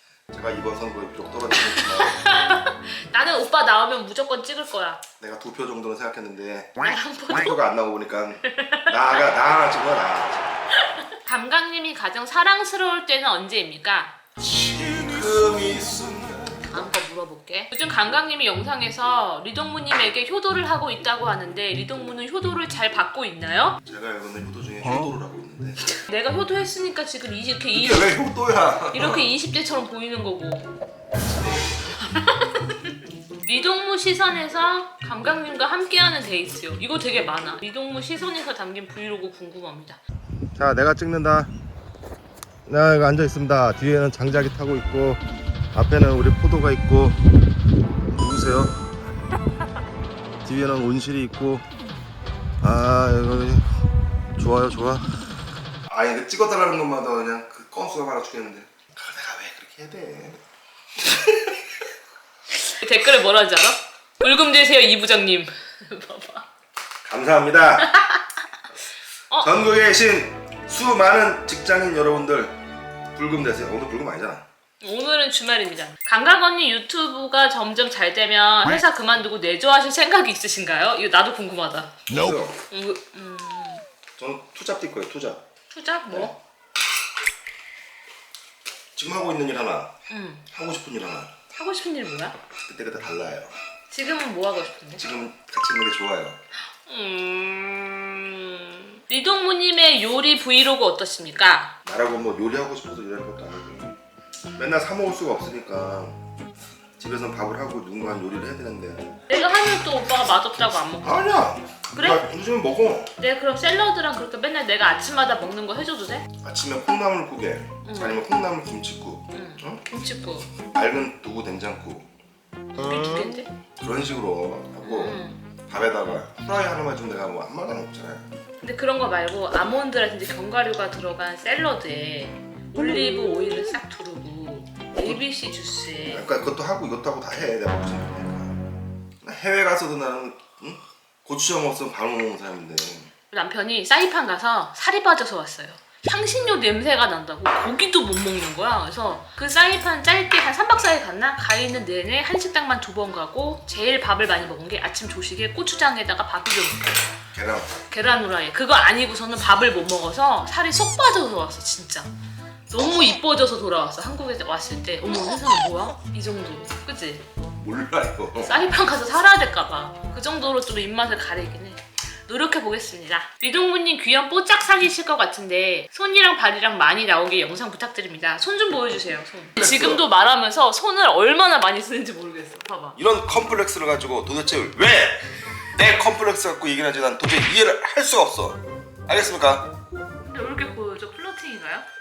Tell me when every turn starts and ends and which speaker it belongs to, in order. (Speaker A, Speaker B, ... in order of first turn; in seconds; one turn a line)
Speaker A: 0.3-2.2
Speaker B: 1.6-5.0
Speaker A: 5.2-10.5
Speaker B: 6.8-7.6
Speaker B: 8.5-9.3
Speaker B: 11.2-14.2
Speaker A: 14.4-16.9
Speaker B: 16.6-23.8
Speaker A: 23.9-25.8
Speaker B: 25.9-28.2
Speaker A: 27.7-29.3
Speaker B: 28.9-30.7
Speaker B: 32.0-32.9
Speaker B: 33.4-40.0
Speaker A: 40.5-41.5
Speaker A: 42.6-45.2
Speaker A: 45.7-47.2
Speaker A: 48.1-48.8
Speaker A: 50.4-51.7
Speaker A: 52.6-53.6
Speaker A: 54.4-55.1
Speaker A: 55.9-60.4
Speaker A: 61.0-61.6
Speaker B: 62.6-66.5
Speaker A: 67.0-67.9
Speaker B: 67.9-68.2
Speaker A: 69.4-72.6
Speaker A: 73.1-74.4
Speaker B: 74.8-81.9
Speaker A: 82.1-82.6
Speaker B: 82.7-83.8
Speaker A: 84.2-85.4
Speaker B: 85.7-86.4
Speaker A: 86.1-86.3
Speaker A: 88.9-89.9
Speaker B: 90.1-90.4
Speaker A: 90.5-91.3
Speaker B: 91.5-92.4
Speaker A: 92.6-93.5
Speaker B: 93.9-95.0
Speaker A: 95.0-96.4
Speaker B: 96.8-101.7
Speaker A: 101.8-103.9
Speaker A: 104.5-106.2
Speaker A: 107.0-109.2
Speaker B: 109.3-111.3
Speaker A: 111.0-113.1
Speaker B: 111.9-112.2
Speaker B: 113.2-116.3
Speaker A: 116.4-119.8
Speaker B: 117.8-118.2
Speaker B: 119.3-120.5
Speaker A: 120.6-122.1
Speaker A: 122.8-128.3
Speaker B: 122.8-123.5
Speaker B: 124.8-125.4
Speaker B: 128.6-136.5
Speaker A: 134.9-135.2
Speaker A: 136.1-138.6
Speaker A: 139.2-143.1
Speaker B: 143.3-157.0
Speaker A: 157.3-157.7
Speaker B: 157.9-162.1
Speaker B: 162.7-167.2
Speaker A: 167.6-168.6
Speaker B: 168.4-183.0
Speaker A: 179.6-180.0
Speaker A: 182.9-185.2
Speaker A: 185.8-189.7
Speaker B: 190.3-191.8